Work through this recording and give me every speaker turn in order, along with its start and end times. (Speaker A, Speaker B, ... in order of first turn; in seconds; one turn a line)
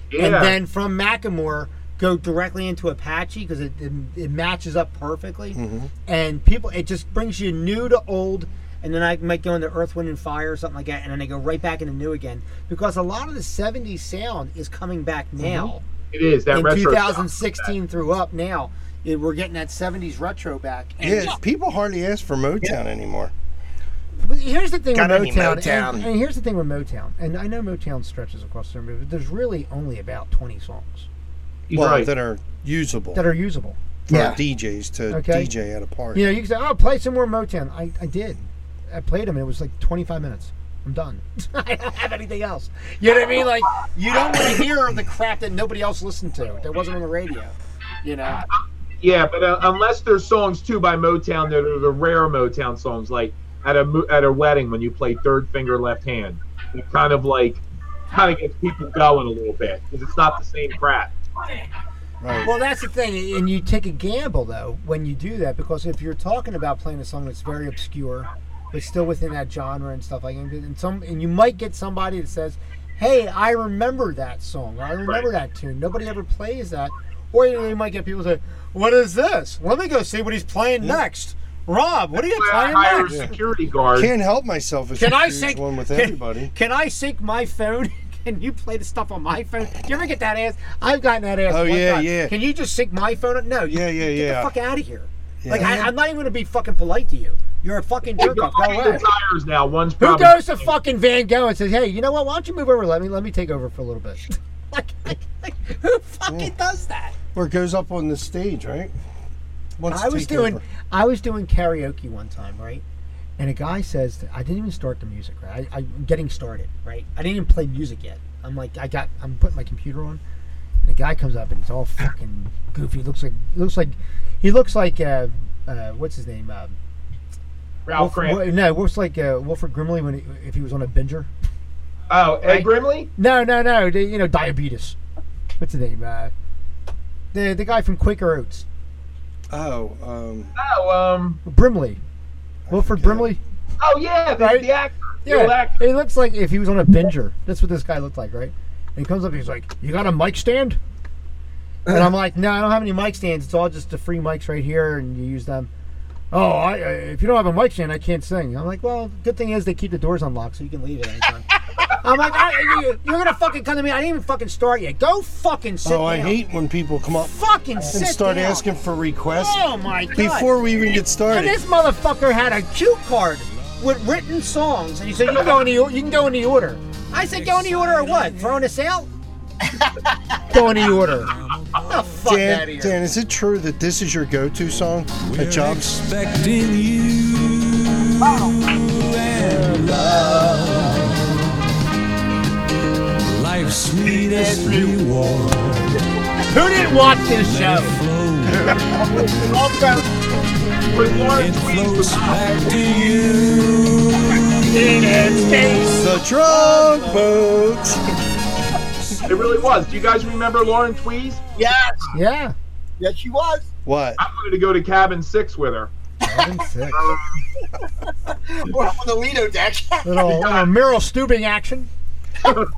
Speaker A: 0.1-0.6
Speaker B: 0.2-15.8
Speaker C: 5.5-5.9
Speaker C: 15.4-15.7
Speaker A: 16.1-17.7
Speaker B: 16.5-21.4
Speaker C: 21.0-23.3
Speaker B: 24.2-31.1
Speaker C: 24.9-26.1
Speaker A: 31.7-32.1
Speaker C: 31.7-33.2
Speaker B: 33.1-33.8
Speaker C: 34.1-36.2
Speaker D: 34.1-34.4
Speaker B: 35.1-35.5
Speaker B: 36.1-48.4
Speaker A: 48.5-61.1
Speaker C: 62.2-62.5
Speaker B: 62.4-83.3
Speaker A: 82.2-84.1
Speaker C: 83.0-83.3
Speaker C: 83.9-86.5
Speaker B: 85.0-99.0
Speaker C: 91.5-92.3
Speaker C: 93.7-94.5
Speaker C: 95.4-95.9
Speaker A: 98.2-100.7
Speaker B: 100.0-107.1
Speaker C: 107.3-108.9
Speaker C: 109.8-110.6
Speaker B: 109.9-112.8
Speaker B: 113.4-120.2
Speaker B: 120.8-126.8
Speaker A: 127.9-128.4
Speaker B: 128.0-131.3
Speaker A: 132.1-133.1
Speaker B: 132.4-135.0
Speaker B: 135.6-136.3
Speaker B: 137.3-138.7
Speaker C: 139.5-140.5
Speaker A: 140.6-141.4
Speaker B: 141.4-142.0
Speaker C: 142.7-143.3
Speaker B: 142.7-143.4
Speaker A: 143.8-145.8
Speaker B: 144.4-144.7
Speaker B: 145.2-150.8
Speaker B: 151.9-155.7
Speaker B: 156.3-166.4
Speaker C: 165.8-169.6
Speaker B: 167.3-168.7
Speaker B: 169.3-170.5
Speaker C: 170.1-171.6
Speaker B: 171.3-179.1
Speaker E: 177.3-178.4
Speaker D: 179.7-180.2
Speaker B: 180.5-183.0
Speaker E: 180.6-182.0
Speaker C: 182.2-186.0
Speaker E: 185.2-191.8
Speaker D: 188.2-188.7
Speaker D: 189.4-191.2
Speaker E: 193.3-196.0
Speaker D: 194.1-195.0
Speaker B: 196.5-197.9
Speaker E: 197.0-198.7
Speaker D: 198.7-200.1
Speaker A: 200.9-202.6
Speaker E: 201.3-205.7
Speaker D: 202.7-203.3
Speaker B: 204.7-206.1
Speaker C: 206.0-208.0
Speaker D: 206.3-207.4
Speaker A: 209.3-211.4
Speaker D: 211.6-212.1
Speaker B: 212.1-212.5
Speaker D: 213.0-213.7
Speaker C: 213.8-214.2
Speaker A: 214.2-215.9
Speaker B: 216.2-217.1
Speaker D: 216.3-216.6
Speaker A: 216.9-217.4
Speaker D: 218.3-220.5
Speaker B: 220.0-221.9
Speaker A: 220.2-220.7